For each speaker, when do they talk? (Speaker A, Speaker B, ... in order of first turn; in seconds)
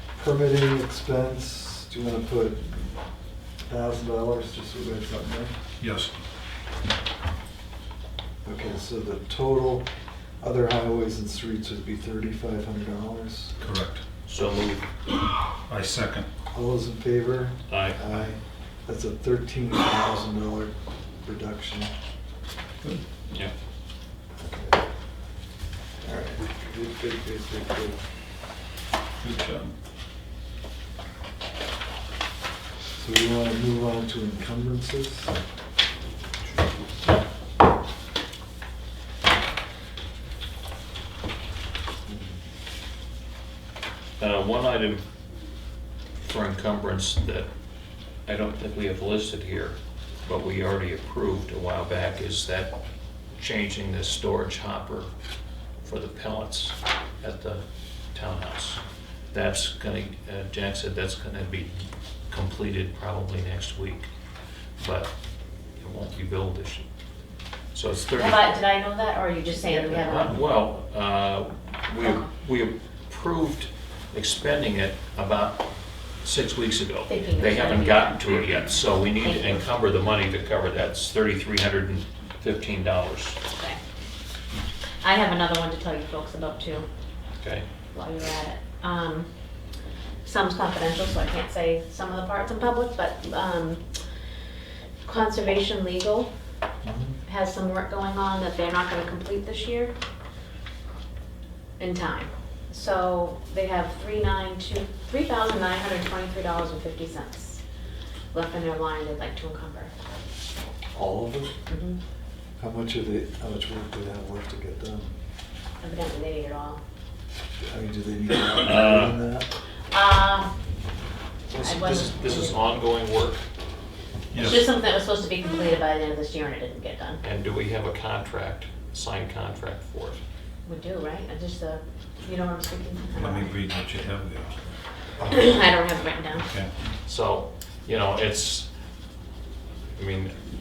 Speaker A: 0.2-2.9, 3.7-5.5, 8.4-9.9, 10.4-13.5, 16.5-21.9, 24.4-24.8, 26.0-28.0, 33.0-35.4, 42.1-42.3, 96.8-97.2, 111.0-111.5, 112.6-115.1, 117.6-119.5, 121.5-122.4
Speaker B: 5.8-6.1, 13.6-14.0, 15.7-16.3, 29.2-29.7, 124.3-124.7, 133.2-134.6, 136.3-136.7
Speaker C: 14.3-14.9, 17.7-18.0, 44.2-45.0, 46.2-47.5, 48.3-52.8, 53.4-55.1, 55.8-58.8, 59.3-61.8, 62.3-64.1, 64.8-65.1, 65.8-66.8, 67.7-68.5, 69.6-75.6, 76.2-83.4, 118.6-119.2, 121.6-123.4, 127.2-130.2, 137.1-138.7, 139.9-140.3
Speaker D: 68.2-70.4, 72.0-72.3, 77.1-78.3, 79.2-79.6, 83.5-83.8, 85.0-86.9, 87.9-89.3, 90.2-93.8, 95.0-96.3, 97.3-99.9, 101.8-107.6, 108.3-109.9, 111.7-112.0, 115.8-116.8, 119.9-120.5, 121.6-122.6, 124.3-127.2, 130.7-133.6, 135.2-136.5